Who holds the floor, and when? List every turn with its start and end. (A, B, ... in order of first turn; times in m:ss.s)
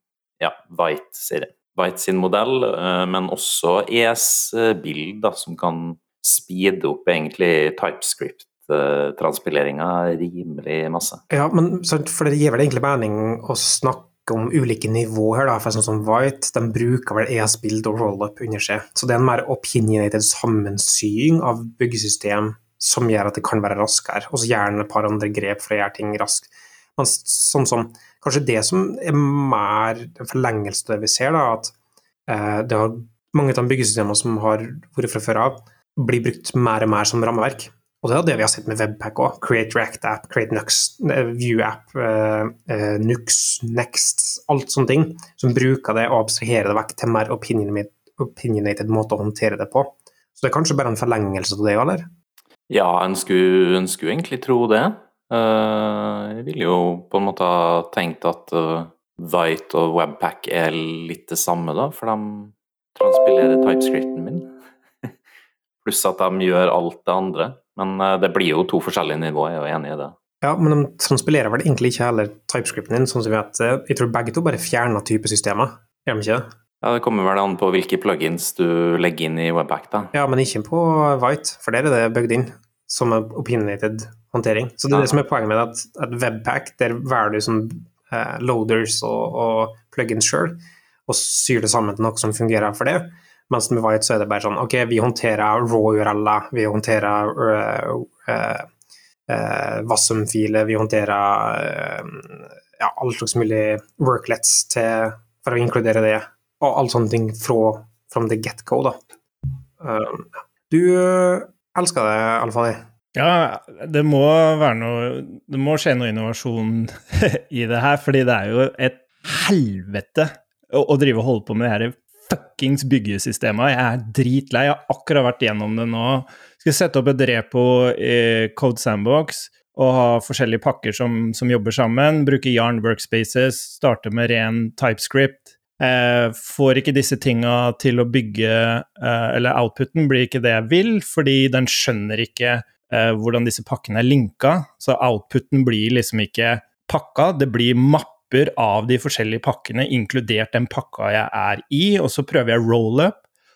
0:00.4-0:11.2 A
0:11.3-0:31.7 B
0:32.3-0:52.1 B
0:52.7-1:04.5 A
1:05.8-1:10.1 A
1:10.4-1:16.4 B
1:16.8-1:20.1 A
1:20.1-1:38.6 B
1:39.3-1:49.0 B
1:49.8-1:52.8 B
1:53.1-2:33.2 C